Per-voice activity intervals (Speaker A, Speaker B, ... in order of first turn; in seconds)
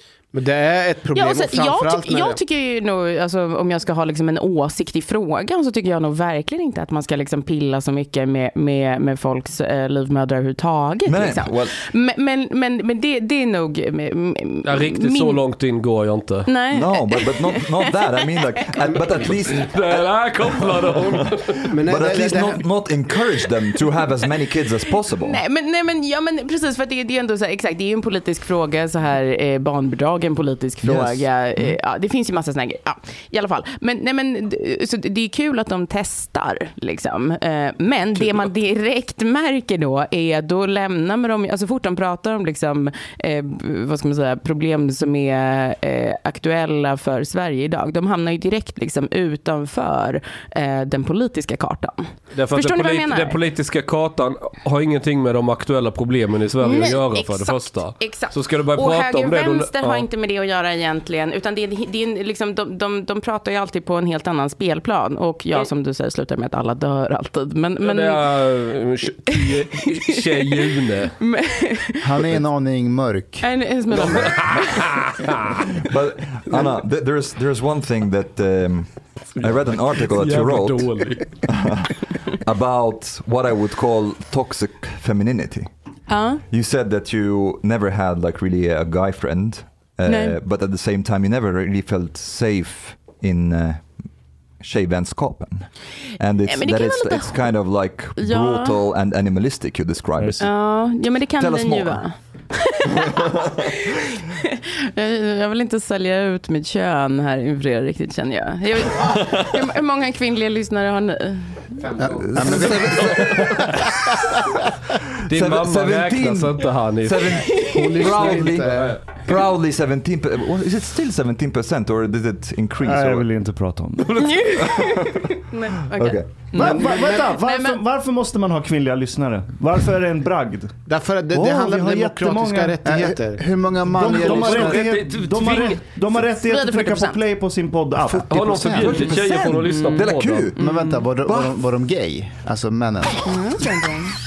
Speaker A: 0.3-2.4, 21.7-22.6, 111.8-112.5, 117.7-118.9, 126.5-127.3, 130.8-133.4
Speaker B: 1.1-15.4, 16.4-18.2, 25.2-53.4, 56.6-68.3, 69.3-70.6, 71.2-72.0, 73.4-74.8, 86.1-86.4, 90.0-90.4, 96.5-97.5, 98.2-98.8, 100.4-111.8, 117.5-117.8, 124.2-127.8, 136.4-137.2, 139.4-141.0, 143.2-144.1
Speaker C: 11.1-11.8, 16.7-19.9, 21.7-25.4, 30.8-31.8, 75.8-85.7, 86.5-94.1, 94.6-100.8, 101.3-102.0, 112.2-113.6, 115.3-123.3, 124.8-125.3, 125.9-126.5, 138.6-140.6, 141.2-141.5
Speaker D: 14.6-16.5, 19.5-21.6, 52.3-60.0, 67.8-71.2, 74.1-75.2, 79.4-81.5, 115.3-119.2, 134.2-135.8, 138.3-140.5
Speaker E: 72.0-73.5, 112.0-113.7, 132.8-135.0, 138.0-139.1, 140.6-143.2
Speaker F: 100.2-100.4, 122.8-124.1, 126.5-132.8, 133.9-138.3